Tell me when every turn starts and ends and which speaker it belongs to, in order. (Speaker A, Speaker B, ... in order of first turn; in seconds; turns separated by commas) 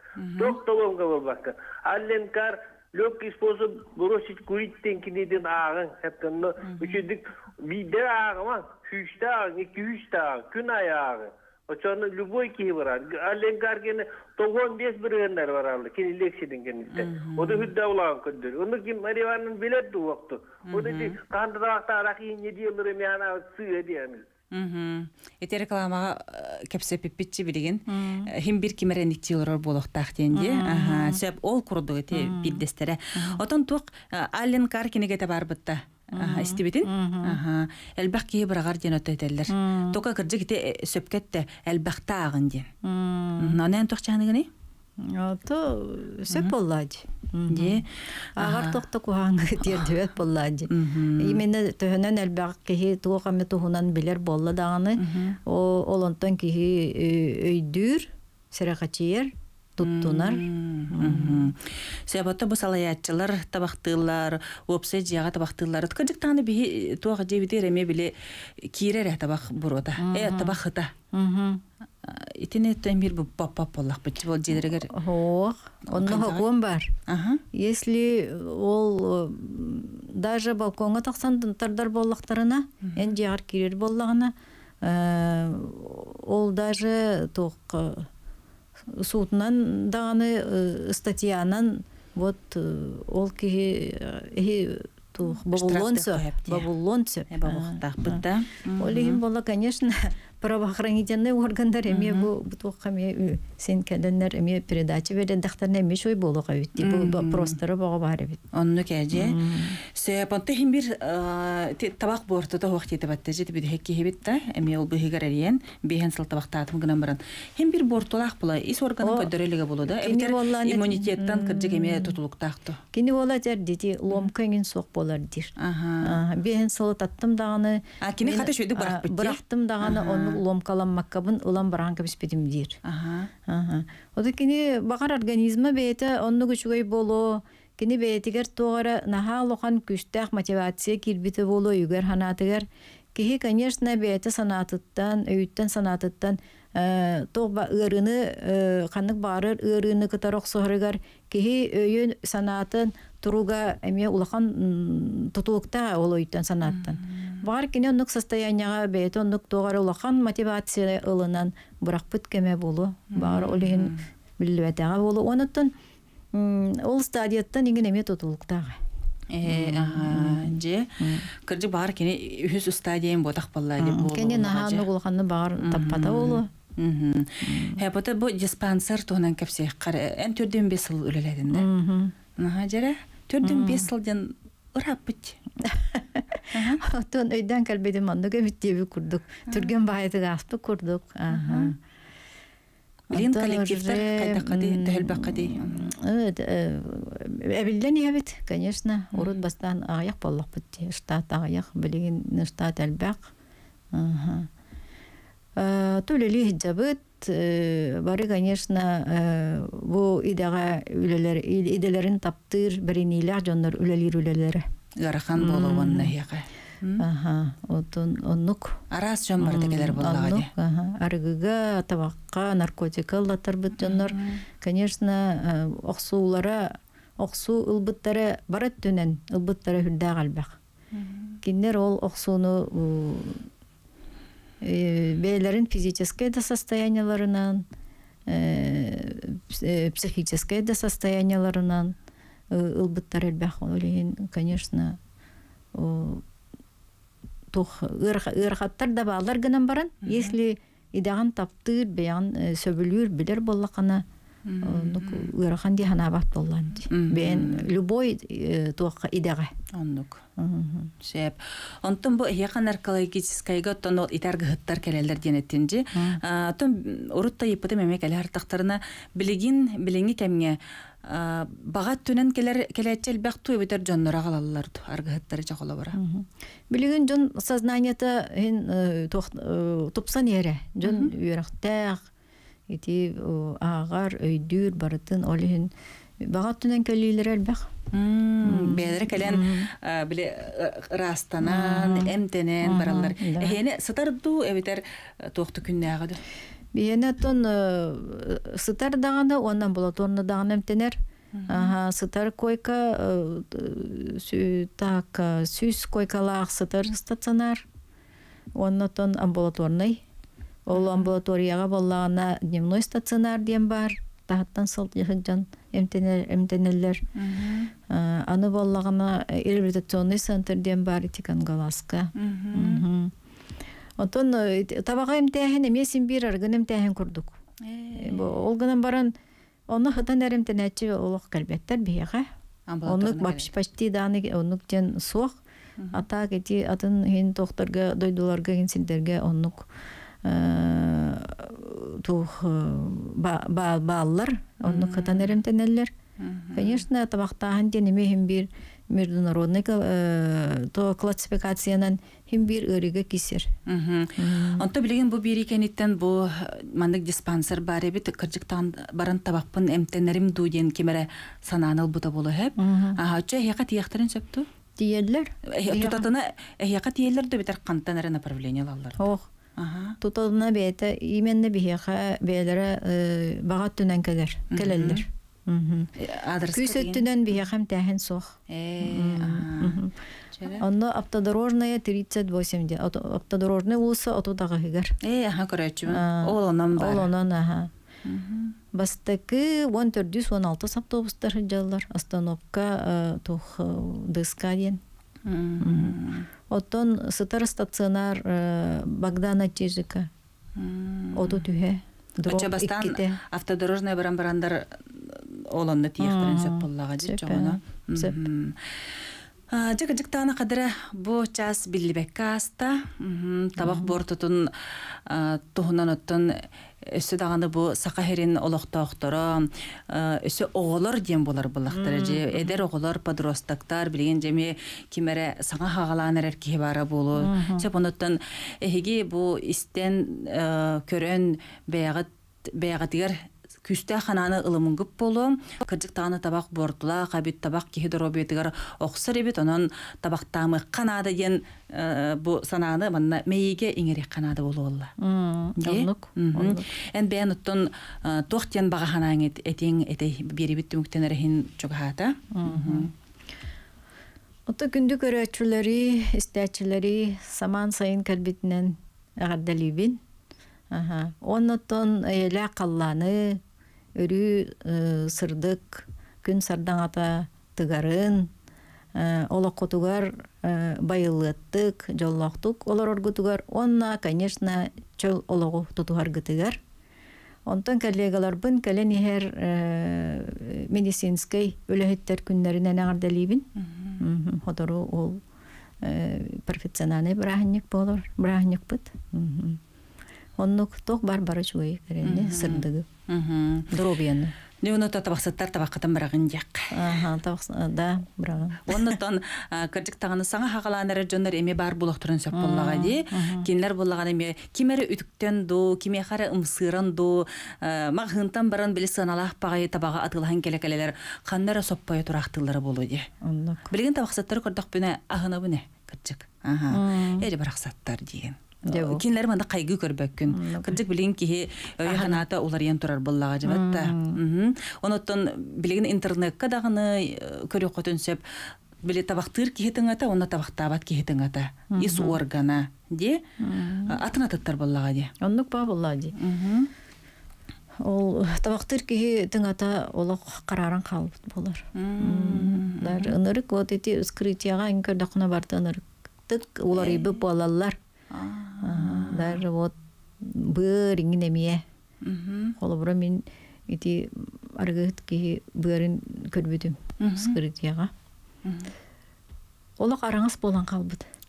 Speaker A: 0.2-0.6, Speaker B: 0.4-24.2, Speaker A: 6.6-7.0, Speaker A: 16.9-17.7, Speaker A: 20.7-21.1, Speaker A: 24.5-42.7, Speaker C: 27.9-28.3, Speaker C: 30.3-31.2, Speaker C: 32.1-32.6, Speaker C: 36.1-37.4, Speaker C: 39.5-40.0, Speaker C: 42.8-43.6, Speaker A: 43.4-44.5, Speaker C: 45.0-47.8, Speaker A: 47.5-48.8, Speaker C: 48.4-61.5, Speaker A: 50.7-51.4, Speaker A: 55.0-55.4, Speaker A: 59.8-70.9, Speaker C: 70.0-70.6, Speaker C: 71.1-71.6, Speaker A: 72.0-74.9, Speaker C: 74.6-76.9, Speaker A: 75.9-76.4, Speaker A: 77.1-77.4, Speaker C: 77.5-88.1, Speaker A: 82.8-83.1, Speaker C: 88.9-98.2, Speaker A: 95.5-96.7, Speaker A: 97.3-99.2, Speaker C: 98.8-108.4, Speaker A: 101.9-102.3, Speaker A: 106.8-107.6, Speaker A: 108.5-122.8, Speaker C: 109.1-109.8, Speaker C: 119.0-119.3, Speaker C: 119.8-122.2, Speaker C: 122.9-132.8, Speaker A: 125.6-126.2, Speaker A: 128.0-130.4, Speaker A: 132.8-133.3, Speaker C: 133.4-165.7, Speaker A: 156.7-157.4, Speaker A: 163.1-164.0, Speaker C: 166.3-168.8, Speaker A: 169.3-174.8, Speaker C: 169.5-171.3, Speaker C: 173.8-176.5, Speaker A: 175.6-181.7, Speaker C: 177.4-177.8, Speaker C: 181.5-182.1, Speaker A: 182.4-185.4, Speaker C: 183.4-183.9, Speaker C: 185.6-191.8, Speaker A: 186.5-186.8, Speaker A: 191.3-191.7, Speaker A: 193.1-195.9, Speaker C: 193.1-203.3, Speaker C: 203.9-204.5, Speaker C: 205.6-214.7, Speaker A: 215.0-217.0, Speaker C: 215.4-216.1, Speaker C: 217.0-218.8, Speaker A: 218.9-220.5, Speaker C: 219.4-230.6, Speaker A: 223.8-224.4, Speaker A: 230.9-231.4, Speaker C: 231.4-233.5, Speaker C: 234.6-237.6, Speaker C: 238.3-241.9, Speaker C: 242.5-245.0, Speaker C: 245.7-246.2, Speaker C: 247.5-254.0, Speaker A: 250.1-250.3, Speaker A: 254.4-255.3, Speaker C: 254.6-259.5, Speaker A: 256.9-257.7, Speaker A: 259.7-260.2, Speaker C: 260.4-260.9, Speaker A: 261.0-276.0, Speaker C: 265.9-266.2, Speaker C: 275.9-282.1, Speaker A: 280.8-281.1, Speaker C: 282.7-287.7, Speaker A: 287.9-296.2, Speaker C: 288.4-289.7, Speaker C: 291.4-293.6, Speaker C: 296.7-301.0, Speaker A: 301.3-301.7, Speaker C: 301.5-307.6, Speaker C: 308.5-310.0, Speaker C: 310.6-317.0, Speaker A: 310.8-311.1, Speaker A: 317.1-317.7, Speaker C: 317.9-323.1, Speaker A: 322.1-322.8, Speaker C: 324.0-327.3, Speaker A: 327.6-328.4, Speaker C: 328.0-329.1, Speaker C: 329.7-332.3, Speaker A: 332.7-333.5, Speaker C: 332.9-335.4, Speaker C: 335.9-339.7, Speaker C: 340.2-345.9, Speaker A: 344.6-345.3, Speaker A: 346.2-346.8, Speaker C: 346.5-353.5, Speaker A: 353.7-364.5, Speaker C: 354.2-354.6, Speaker C: 362.6-363.0, Speaker C: 364.8-366.1, Speaker A: 365.5-369.0, Speaker C: 369.0-369.3, Speaker A: 369.6-370.0, Speaker C: 370.0-375.9, Speaker A: 374.5-375.0, Speaker A: 376.0-377.0, Speaker C: 376.5-379.9, Speaker A: 378.5-379.8, Speaker A: 380.3-380.6, Speaker C: 380.5-385.0, Speaker A: 385.0-387.1, Speaker C: 385.9-387.7, Speaker A: 388.0-388.6, Speaker C: 388.7-394.8, Speaker A: 395.2-396.3, Speaker C: 395.6-400.1, Speaker A: 400.6-401.4, Speaker C: 401.1-403.2, Speaker A: 402.2-408.6, Speaker C: 406.0-408.2, Speaker A: 409.5-444.9, Speaker C: 413.6-413.9, Speaker C: 421.7-422.6, Speaker C: 427.2-427.7, Speaker C: 445.0-446.7, Speaker A: 445.6-452.9, Speaker C: 452.3-452.9, Speaker C: 454.5-460.0, Speaker C: 460.7-463.4, Speaker C: 463.9-468.3, Speaker C: 468.9-476.6, Speaker C: 477.4-483.5, Speaker A: 483.6-484.0, Speaker C: 484.0-485.2, Speaker C: 485.8-489.6, Speaker C: 490.4-492.9, Speaker A: 492.0-493.7, Speaker C: 493.7-494.3, Speaker A: 494.6-496.9, Speaker C: 496.7-499.0, Speaker A: 498.6-513.1, Speaker C: 502.3-503.5, Speaker C: 513.2-513.7, Speaker A: 513.7-528.2, Speaker C: 516.7-517.3, Speaker C: 518.7-519.0, Speaker C: 520.3-520.8, Speaker C: 521.8-522.2, Speaker C: 523.4-524.2, Speaker A: 528.8-533.2, Speaker C: 531.7-532.2, Speaker C: 533.4-534.0, Speaker A: 533.9-535.1, Speaker C: 535.2-536.1, Speaker A: 536.1-536.7, Speaker C: 537.8-547.8, Speaker A: 541.7-543.1, Speaker A: 546.7-547.1, Speaker A: 548.1-549.4, Speaker C: 548.6-551.6, Speaker A: 552.0-552.5, Speaker C: 552.6-557.9, Speaker A: 557.0-557.4, Speaker A: 558.4-558.7, Speaker C: 559.8-561.0